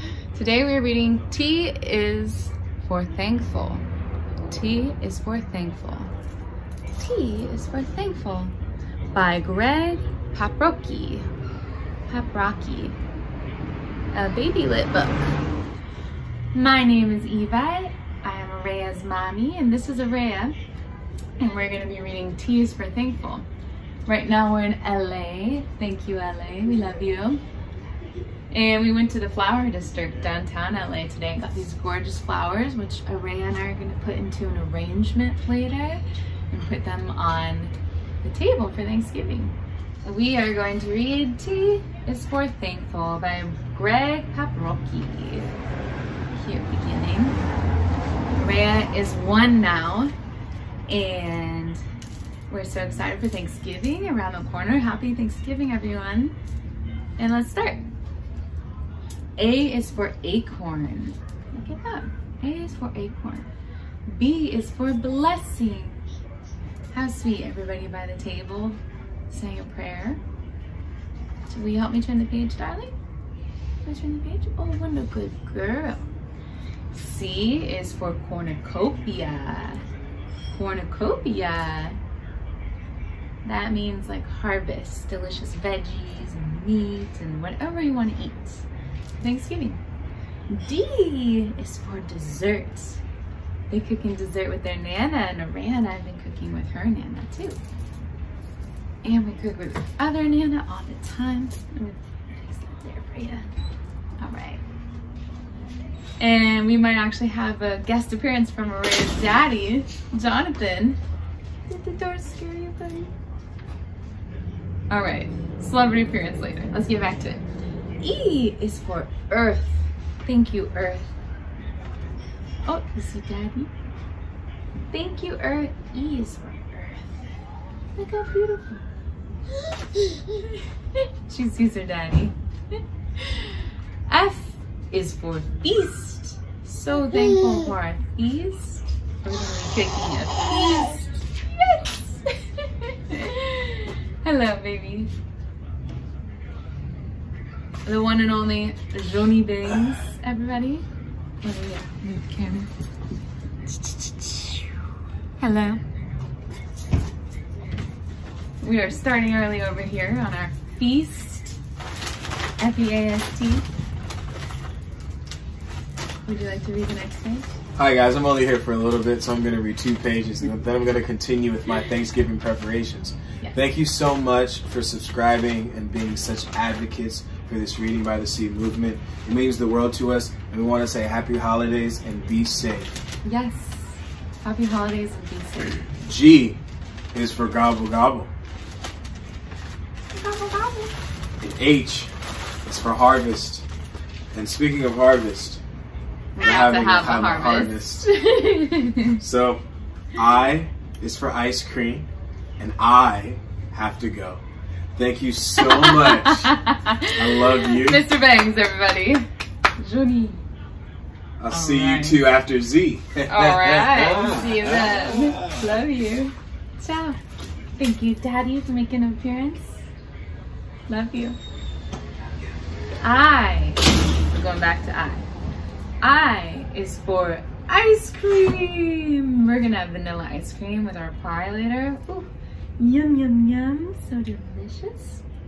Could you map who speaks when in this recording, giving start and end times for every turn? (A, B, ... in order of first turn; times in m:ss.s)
0:00.3-0:03.8 A
0:04.5-0:06.1 A
0:06.9-0:08.5 A
0:09.1-0:11.3 A
0:12.1-0:13.0 A
0:14.1-0:15.3 A
0:16.5-0:20.6 A
0:21.4-0:23.5 A
0:24.1-0:27.4 A
0:28.5-0:45.6 A
0:46.3-0:47.4 A
0:48.3-0:50.1 A
0:50.9-0:51.8 A
0:52.5-0:56.4 A
0:57.2-0:57.8 A
0:59.4-1:03.5 A
1:04.1-1:06.0 A
1:06.9-1:08.8 A
1:09.3-1:10.2 A
1:11.5-1:12.9 A
1:13.8-1:16.0 A
1:16.9-1:19.8 A
1:20.5-1:22.0 A
1:23.4-1:28.6 A
1:29.2-1:29.8 A
1:30.5-1:33.0 A
1:33.7-1:37.6 A
1:39.0-1:43.5 A
1:44.2-1:44.6 A
1:46.2-1:51.0 A
1:51.7-1:53.1 A
1:54.9-1:57.4 A
1:58.0-2:01.1 A
2:02.6-2:03.7 A
2:04.9-2:07.2 A
2:08.0-2:08.9 A
2:10.0-2:10.4 A
2:11.0-2:12.3 A
2:13.2-2:25.1 A
2:27.8-2:30.8 A
2:31.4-2:32.7 A
2:33.7-2:34.7 A
2:35.4-2:35.8 A
2:38.6-2:41.6 A
2:42.6-2:43.6 A
2:46.2-2:47.5 A
2:47.8-3:02.9 B
3:03.2-3:05.9 A
3:06.0-3:06.6 B
3:07.1-3:08.3 B
3:10.1-3:10.9 A
3:11.4-3:12.1 B
3:12.6-3:13.6 B
3:14.3-3:15.6 B
3:16.4-3:19.2 A
3:16.4-3:18.1 B
3:19.2-3:19.6 B
3:20.1-3:22.1 B
3:22.6-3:24.4 B
3:25.0-3:26.6 B
3:25.6-3:29.2 A
3:27.1-3:28.0 B
3:29.8-3:30.4 A
3:31.4-3:35.6 B
3:31.5-3:32.2 A
3:33.3-3:37.2 A
3:37.8-3:39.8 A
3:40.9-3:41.4 A
3:43.0-3:45.3 A
3:46.0-3:55.2 A